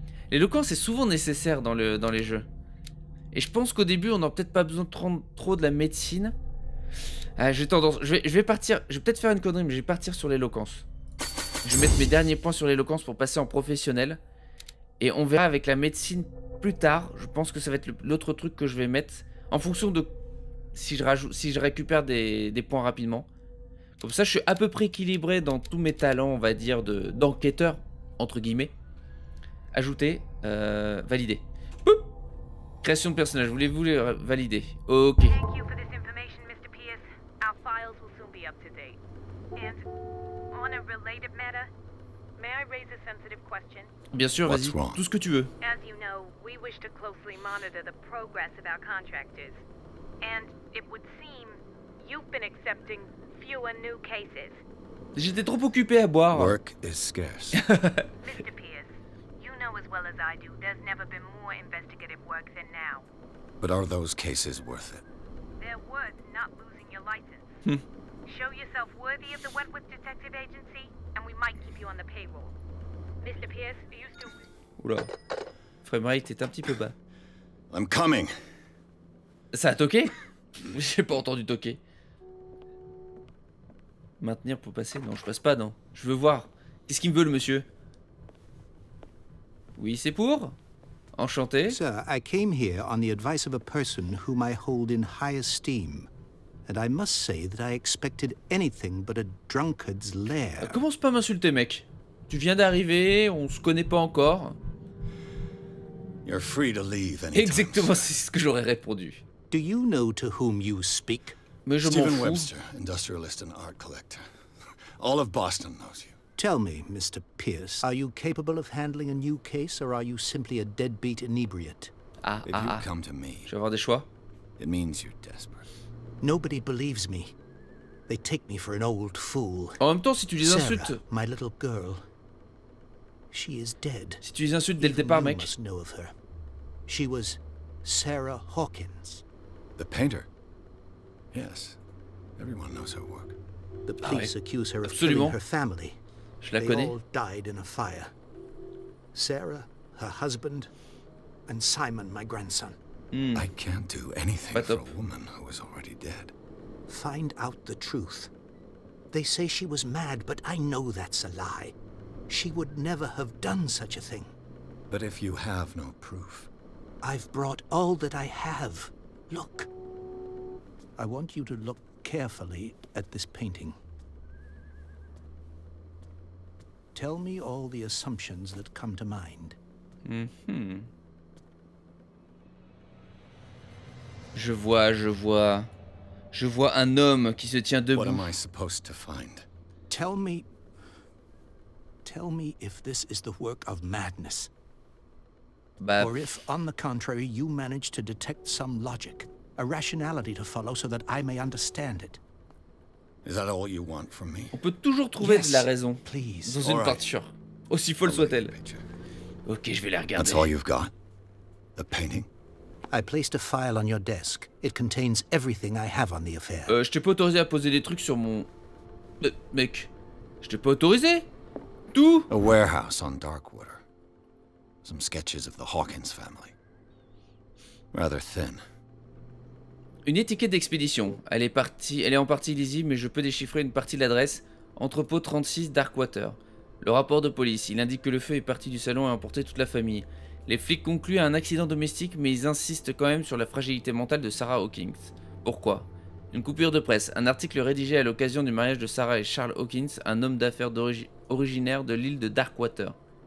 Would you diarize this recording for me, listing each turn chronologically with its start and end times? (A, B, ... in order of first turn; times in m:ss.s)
0:00.3-0:02.4 A
0:03.3-0:06.3 A
0:07.4-0:10.8 A
0:11.6-0:14.2 A
0:15.0-0:20.1 A
0:20.7-0:23.3 A
0:24.0-0:28.7 A
0:29.7-0:32.0 A
0:32.8-0:35.4 A
0:35.3-0:39.0 B
0:39.6-0:39.8 B
0:40.5-0:41.7 B
0:42.4-0:43.9 B
0:44.1-0:45.5 A
0:44.4-0:45.0 C
0:45.6-0:49.6 B
0:50.2-0:54.6 B
0:55.1-0:56.5 A
0:56.3-0:57.6 C
0:57.5-0:58.0 A
0:58.2-1:03.0 B
1:03.6-1:05.0 C
1:05.6-1:07.6 B
1:08.2-1:12.5 B
1:13.2-1:14.4 B
1:14.8-1:15.1 A
1:15.8-1:16.9 A
1:17.7-1:18.5 C
1:19.5-1:21.8 A
1:24.2-1:27.7 A
1:29.8-1:30.6 A
1:31.2-1:31.8 A
1:31.7-1:36.1 D
1:36.6-1:40.8 D
1:40.6-1:44.6 A
1:46.2-1:48.0 C
1:47.3-1:49.2 A
1:49.5-1:51.4 D
1:51.6-1:52.5 A
1:51.8-1:56.2 C
1:56.4-2:01.9 D
2:02.2-2:02.8 A
2:02.4-2:03.5 C
2:03.4-2:04.1 A
2:04.6-2:05.7 C
2:06.2-2:07.3 D
2:08.1-2:09.8 D
2:09.8-2:11.0 A
2:10.4-2:12.0 D
2:13.3-2:14.2 D
2:14.2-2:15.5 A
2:14.8-2:16.1 D
2:16.9-2:19.2 D
2:19.8-2:20.3 C
2:21.3-2:21.8 C
2:22.4-2:23.4 C
2:23.8-2:26.0 D
2:24.0-2:24.3 A
2:24.8-2:25.4 A
2:26.4-2:27.0 A
2:26.6-2:28.1 D
2:29.1-2:30.7 D
2:31.5-2:32.8 D
2:33.1-2:33.5 A
2:33.3-2:36.3 C
2:34.5-2:34.9 A
2:36.9-2:38.3 D
2:39.1-2:41.7 D
2:42.3-2:44.3 D
2:44.9-2:46.5 C
2:47.0-2:49.7 D
2:51.0-2:53.8 D
2:56.9-2:59.6 D
3:00.0-3:00.9 A
3:04.3-3:05.7 A
3:06.3-3:08.3 A
3:07.9-3:09.5 C
3:09.9-3:10.5 D
3:12.0-3:14.5 D
3:15.8-3:16.1 A
3:16.0-3:22.2 D
3:23.2-3:24.6 C
3:24.5-3:28.5 A
3:25.2-3:26.6 D
3:26.6-3:27.0 C
3:28.0-3:28.8 C
3:29.4-3:30.5 A
3:30.2-3:30.9 C
3:31.7-3:32.3 C
3:32.9-3:36.8 D
3:36.7-3:38.5 A
3:39.2-3:39.9 A
3:40.4-3:41.3 A
3:41.9-3:42.3 A
3:42.3-3:43.8 C
3:44.8-3:46.5 C
3:47.9-3:48.6 C
3:50.0-4:13.0 A